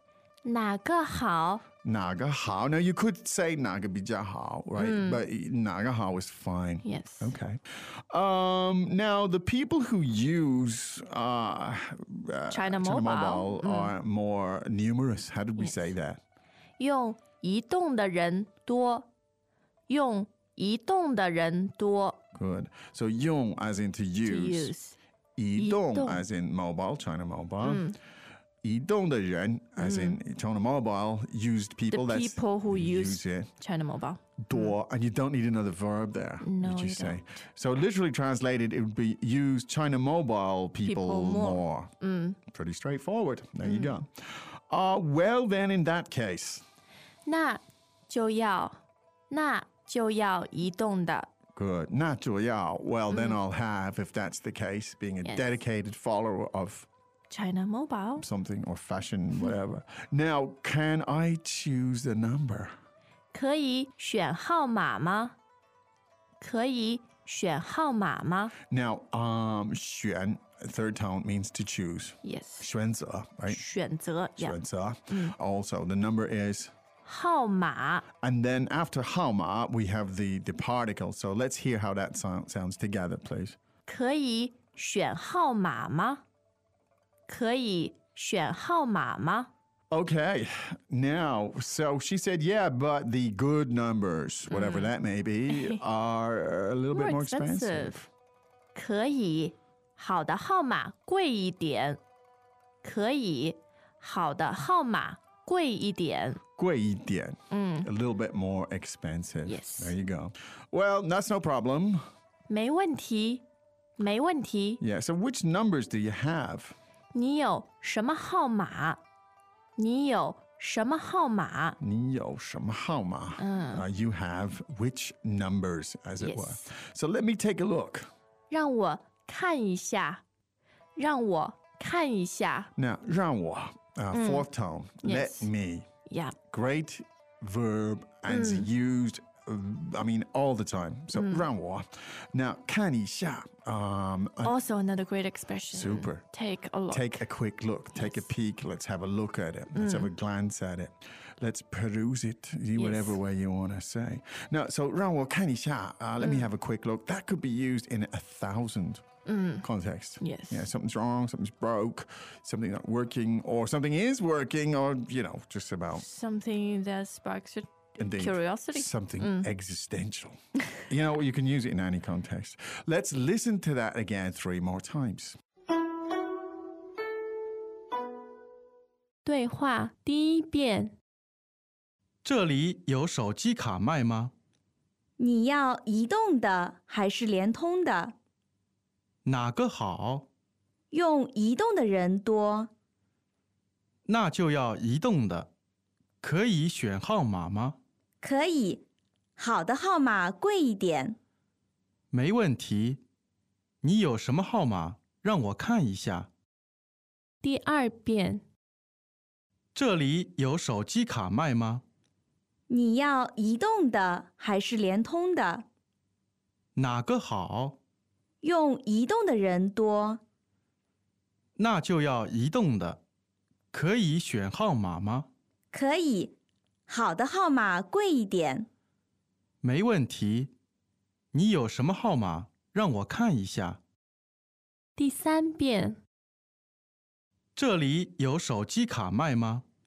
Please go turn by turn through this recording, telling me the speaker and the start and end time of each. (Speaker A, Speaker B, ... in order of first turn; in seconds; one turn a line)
Speaker A: 0.4-1.6
Speaker B: 1.8-16.2
Speaker A: 4.8-5.2
Speaker A: 6.8-7.3
Speaker A: 12.5-13.9
Speaker A: 15.6-15.9
Speaker A: 16.8-19.1
Speaker A: 19.9-22.2
Speaker B: 22.4-24.7
Speaker A: 24.2-25.0
Speaker B: 25.4-27.9
Speaker A: 25.6-26.2
Speaker A: 27.6-28.0
Speaker B: 28.6-33.5
Speaker A: 29.8-30.2
Speaker A: 31.9-34.8
Speaker B: 34.4-41.9
Speaker A: 36.4-37.2
Speaker A: 40.9-42.4
Speaker B: 42.5-46.6
Speaker A: 43.6-44.0
Speaker A: 47.3-48.8
Speaker A: 49.3-51.3
Speaker B: 51.5-56.9
Speaker A: 53.1-53.4
Speaker A: 55.2-55.6
Speaker A: 57.3-58.2
Speaker B: 58.2-62.7
Speaker A: 63.3-65.3
Speaker A: 66.4-68.5
Speaker B: 68.7-73.6
Speaker A: 72.2-72.7
Speaker A: 73.5-74.6
Speaker B: 74.4-76.7
Speaker A: 75.1-75.3
Speaker A: 77.0-78.0
Speaker B: 78.2-83.6
Speaker A: 83.9-86.2
Speaker A: 87.3-89.5
Speaker B: 89.9-98.1
Speaker A: 94.5-94.9
Speaker A: 95.5-95.8
Speaker A: 96.9-98.0
Speaker A: 98.8-102.0
Speaker A: 102.8-106.4
Speaker B: 106.6-112.1
Speaker A: 107.5-107.9
Speaker A: 109.5-110.0
Speaker A: 112.5-113.4
Speaker A: 114.0-114.8
Speaker B: 114.8-116.8
Speaker A: 117.1-119.0
Speaker A: 119.8-121.8
Speaker B: 121.8-128.1
Speaker A: 123.4-123.8
Speaker A: 126.2-126.6
Speaker A: 128.5-130.2
Speaker A: 131.0-132.7
Speaker B: 132.8-135.9
Speaker A: 134.1-134.5
Speaker A: 135.0-135.5
Speaker A: 136.1-136.4
Speaker B: 136.5-144.6
Speaker A: 138.3-138.7
Speaker A: 141.1-141.5
Speaker A: 144.4-147.3
Speaker B: 145.7-146.3
Speaker B: 146.9-159.0
Speaker A: 147.9-148.3
Speaker A: 149.8-150.1
Speaker A: 152.8-153.2
Speaker A: 156.2-156.5
Speaker A: 159.3-159.6
Speaker B: 159.6-166.1
Speaker A: 160.2-160.7
Speaker A: 165.9-169.5
Speaker B: 168.0-175.4
Speaker A: 179.2-180.9
Speaker C: 182.2-184.3
Speaker D: 185.2-188.1
Speaker C: 189.2-190.3
Speaker D: 190.9-192.7
Speaker C: 194.1-195.5
Speaker C: 196.2-197.8
Speaker D: 198.2-198.8
Speaker D: 199.4-201.2
Speaker C: 202.1-203.0
Speaker C: 203.8-206.3
Speaker A: 207.4-208.4
Speaker C: 209.8-211.8
Speaker D: 212.7-215.7
Speaker C: 216.8-217.8
Speaker D: 218.4-220.2
Speaker C: 221.6-223.0
Speaker C: 223.7-225.3
Speaker D: 225.7-226.3
Speaker D: 226.9-228.7
Speaker C: 229.6-230.5
Speaker C: 231.3-233.8
Speaker A: 235.0-236.0
Speaker C: 237.6-239.7